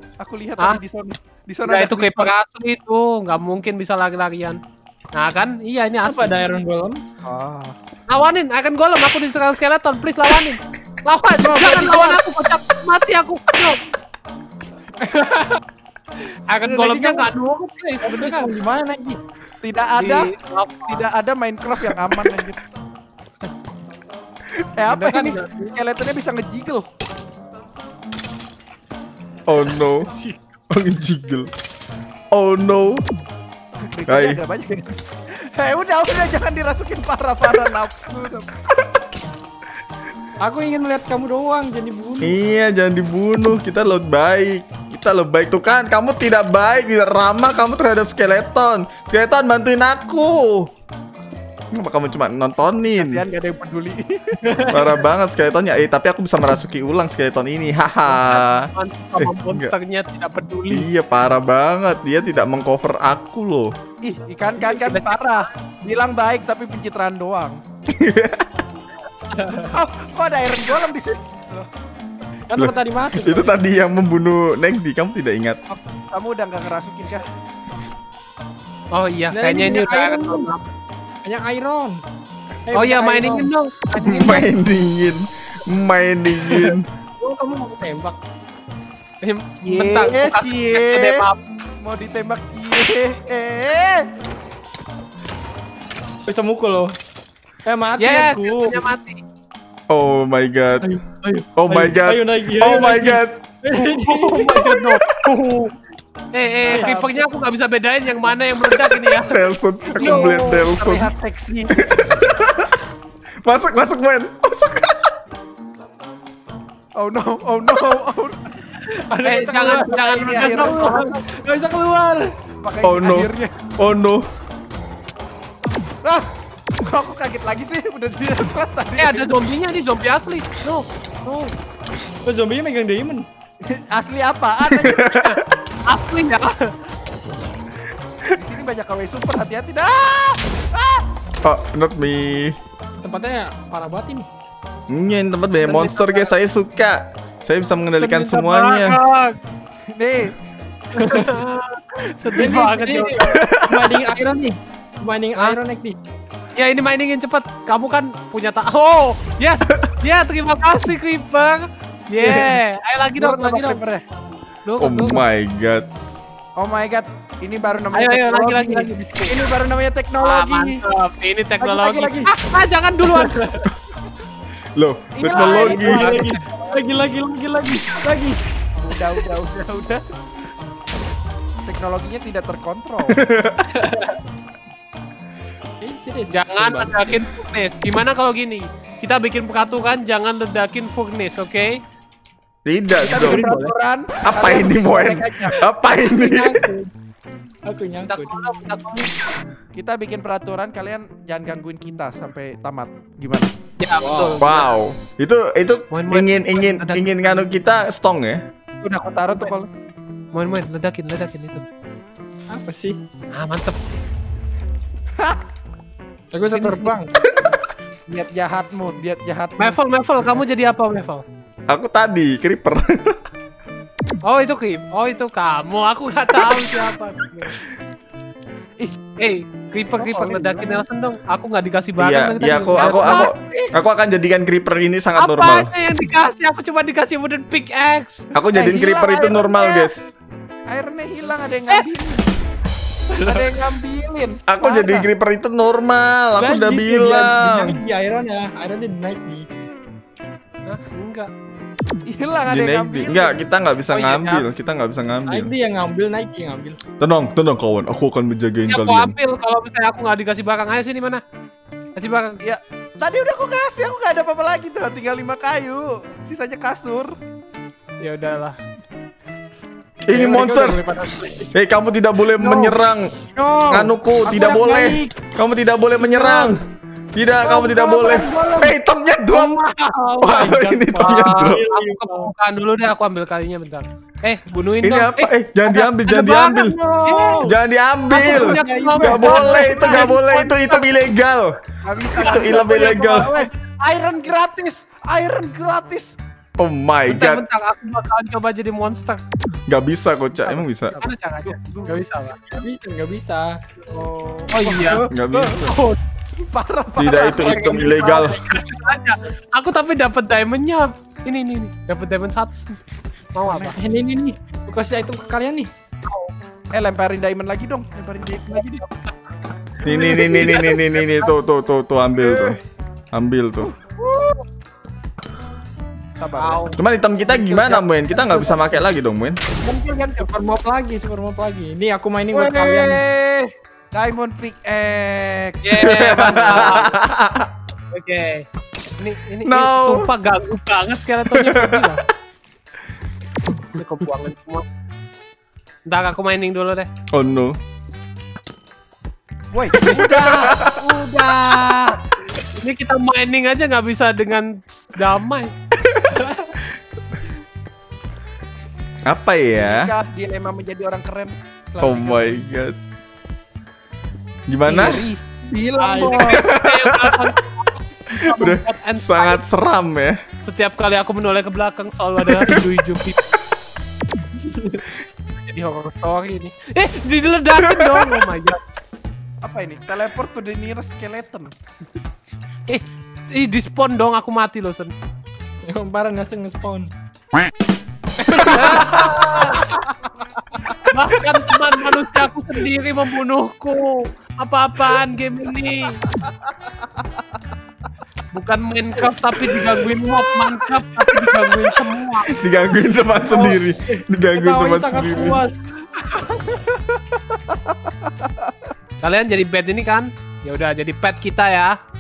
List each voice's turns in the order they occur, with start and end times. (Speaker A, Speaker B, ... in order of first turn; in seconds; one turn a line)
Speaker A: 0.2-2.3
Speaker B: 1.7-4.6
Speaker B: 5.1-6.4
Speaker C: 6.0-7.0
Speaker A: 7.2-7.8
Speaker B: 8.1-13.8
Speaker A: 11.4-12.2
Speaker C: 15.0-15.5
Speaker B: 15.2-15.5
Speaker B: 16.5-18.5
Speaker C: 16.6-17.3
Speaker C: 18.0-19.2
Speaker A: 19.6-20.3
Speaker B: 20.0-21.1
Speaker A: 20.9-22.6
Speaker A: 24.8-26.9
Speaker B: 24.9-25.7
Speaker D: 29.5-30.1
Speaker D: 30.7-31.5
Speaker D: 32.3-33.0
Speaker A: 33.8-38.5
Speaker D: 34.1-34.4
Speaker C: 40.4-42.4
Speaker D: 42.2-50.7
Speaker D: 51.7-53.2
Speaker A: 53.0-54.4
Speaker C: 54.4-54.9
Speaker D: 54.7-59.7
Speaker B: 58.1-60.9
Speaker D: 60.7-63.7
Speaker A: 64.0-67.6
Speaker B: 64.7-65.5
Speaker D: 67.9-68.5
Speaker C: 69.4-69.6
Speaker A: 69.6-71.7
Speaker C: 72.5-73.5
Speaker D: 72.6-75.6
Speaker A: 76.1-77.3
Speaker B: 78.9-80.6
Speaker C: 79.3-80.5
Speaker C: 81.2-82.0
Speaker C: 82.7-83.5
Speaker B: 82.7-84.5
Speaker D: 84.0-86.9
Speaker C: 87.2-88.2
Speaker B: 89.2-91.4
Speaker A: 89.6-91.2
Speaker A: 91.8-94.1
Speaker C: 96.2-96.9
Speaker C: 97.6-98.8
Speaker B: 98.0-99.2
Speaker D: 99.9-100.9
Speaker C: 100.8-104.8
Speaker D: 101.6-103.4
Speaker B: 103.7-105.7
Speaker B: 106.3-109.4
Speaker A: 106.6-107.2
Speaker D: 109.2-111.1
Speaker B: 110.0-110.6
Speaker A: 110.0-111.8
Speaker C: 110.0-110.8
Speaker D: 111.8-112.7
Speaker D: 113.4-115.0
Speaker A: 117.0-118.5
Speaker C: 118.9-122.3
Speaker B: 119.2-121.2
Speaker A: 119.7-121.1
Speaker A: 122.6-123.5
Speaker D: 122.8-124.2
Speaker A: 126.8-129.3
Speaker B: 129.0-131.5
Speaker C: 132.2-133.2
Speaker A: 133.7-135.1
Speaker D: 134.7-135.4
Speaker B: 135.2-136.7
Speaker A: 138.3-141.0
Speaker D: 141.4-142.6
Speaker C: 143.0-144.3
Speaker D: 144.9-149.0
Speaker B: 145.6-146.3
Speaker B: 147.9-149.4
Speaker A: 149.9-150.3
Speaker B: 150.9-153.3
Speaker C: 150.9-151.3
Speaker C: 152.2-156.0
Speaker D: 153.2-154.0
Speaker B: 156.6-163.8
Speaker A: 163.2-164.0
Speaker B: 164.7-165.2
Speaker D: 164.8-165.9
Speaker A: 166.6-170.8
Speaker B: 167.9-169.4
Speaker B: 170.2-173.4
Speaker A: 171.6-172.3
Speaker C: 171.9-172.2
Speaker C: 173.1-173.7
Speaker D: 174.8-176.2
Speaker A: 175.1-176.3
Speaker B: 175.3-176.7
Speaker C: 175.6-178.4
Speaker A: 178.8-180.0
Speaker A: 181.6-183.2
Speaker D: 183.1-183.7
Speaker C: 183.7-184.1
Speaker C: 185.8-187.2
Speaker B: 186.3-191.8
Speaker D: 192.6-193.4
Speaker C: 193.0-193.7
Speaker A: 193.1-195.6
Speaker D: 194.2-196.6
Speaker C: 196.1-196.9
Speaker C: 197.6-198.3
Speaker B: 198.1-199.3
Speaker A: 199.7-203.5
Speaker B: 203.8-204.6
Speaker C: 203.9-204.5
Speaker D: 204.4-208.4
Speaker B: 205.9-207.5
Speaker A: 208.8-209.7
Speaker B: 210.3-211.6
Speaker C: 212.5-213.0
Speaker B: 213.3-214.0
Speaker C: 216.3-217.1
Speaker B: 216.5-216.9
Speaker A: 218.1-220.4
Speaker B: 219.6-221.2
Speaker D: 221.7-223.2
Speaker B: 224.2-227.6
Speaker B: 229.2-233.7
Speaker A: 229.9-230.8
Speaker D: 232.0-235.7
Speaker A: 232.7-233.7
Speaker B: 235.2-238.3
Speaker D: 238.3-240.1
Speaker A: 238.5-239.9
Speaker A: 240.7-242.2
Speaker C: 243.1-243.4
Speaker A: 243.2-245.1
Speaker D: 244.5-247.8
Speaker C: 246.4-249.5
Speaker B: 250.7-251.3
Speaker A: 252.1-253.4
Speaker D: 252.5-255.5
Speaker B: 253.9-254.4
Speaker C: 255.3-256.8
Speaker D: 257.0-259.1
Speaker B: 258.7-261.2
Speaker B: 261.9-262.4
Speaker A: 262.4-267.1
Speaker B: 268.0-268.6
Speaker D: 270.1-270.8
Speaker C: 270.1-271.5
Speaker D: 271.5-273.1
Speaker C: 272.4-275.1
Speaker D: 273.7-276.6
Speaker C: 276.0-276.6
Speaker D: 277.1-279.5
Speaker C: 277.4-278.8
Speaker C: 279.3-282.3
Speaker D: 280.2-281.6
Speaker B: 280.4-287.4
Speaker D: 284.8-286.8
Speaker C: 286.7-287.6
Speaker D: 287.4-291.6
Speaker B: 288.1-290.9
Speaker C: 288.2-289.3
Speaker A: 288.6-290.1
Speaker A: 291.8-296.1
Speaker D: 292.2-293.3
Speaker B: 292.2-293.5
Speaker D: 296.6-297.4
Speaker B: 297.1-299.2
Speaker D: 299.7-300.9
Speaker A: 300.9-302.0
Speaker B: 300.9-302.5
Speaker C: 302.5-303.6
Speaker A: 304.2-304.5
Speaker B: 304.5-305.0
Speaker C: 304.6-305.6
Speaker D: 305.1-305.7
Speaker B: 305.6-306.0
Speaker A: 306.5-308.4
Speaker D: 307.0-308.4
Speaker C: 307.3-308.4
Speaker B: 308.4-312.8
Speaker B: 313.4-313.8
Speaker C: 313.5-315.7
Speaker A: 316.7-318.9
Speaker B: 318.8-319.1
Speaker D: 319.8-322.6
Speaker C: 319.9-320.6
Speaker A: 322.2-322.6
Speaker D: 323.1-323.7
Speaker A: 323.6-324.4
Speaker A: 326.2-326.6
Speaker B: 326.4-326.8
Speaker D: 326.8-329.4
Speaker A: 327.3-328.6
Speaker A: 329.6-330.3
Speaker C: 330.1-333.0
Speaker A: 332.3-336.9
Speaker B: 335.6-336.9
Speaker D: 335.8-337.5
Speaker B: 337.9-338.4
Speaker B: 339.0-342.0
Speaker D: 339.4-340.1
Speaker D: 341.4-341.7
Speaker B: 343.7-344.6
Speaker B: 345.9-346.9
Speaker D: 347.1-347.6
Speaker A: 349.5-352.0
Speaker D: 349.8-350.7
Speaker B: 352.6-355.5
Speaker C: 356.1-356.5
Speaker D: 359.1-359.9
Speaker A: 359.6-361.4
Speaker C: 361.7-362.2
Speaker D: 361.8-362.8
Speaker D: 364.5-365.1
Speaker A: 364.6-366.4
Speaker C: 365.8-366.4
Speaker B: 366.1-369.4
Speaker D: 366.4-367.3
Speaker D: 368.1-370.2
Speaker B: 370.4-373.2
Speaker C: 374.4-374.8
Speaker B: 375.4-378.6
Speaker D: 377.6-378.2
Speaker A: 379.4-381.5
Speaker B: 382.7-384.9
Speaker C: 385.7-386.9
Speaker C: 388.2-389.7
Speaker B: 388.5-389.7
Speaker B: 390.9-396.1
Speaker B: 398.3-402.4
Speaker D: 402.2-405.4
Speaker C: 403.2-405.6
Speaker A: 406.0-408.5
Speaker B: 409.0-411.7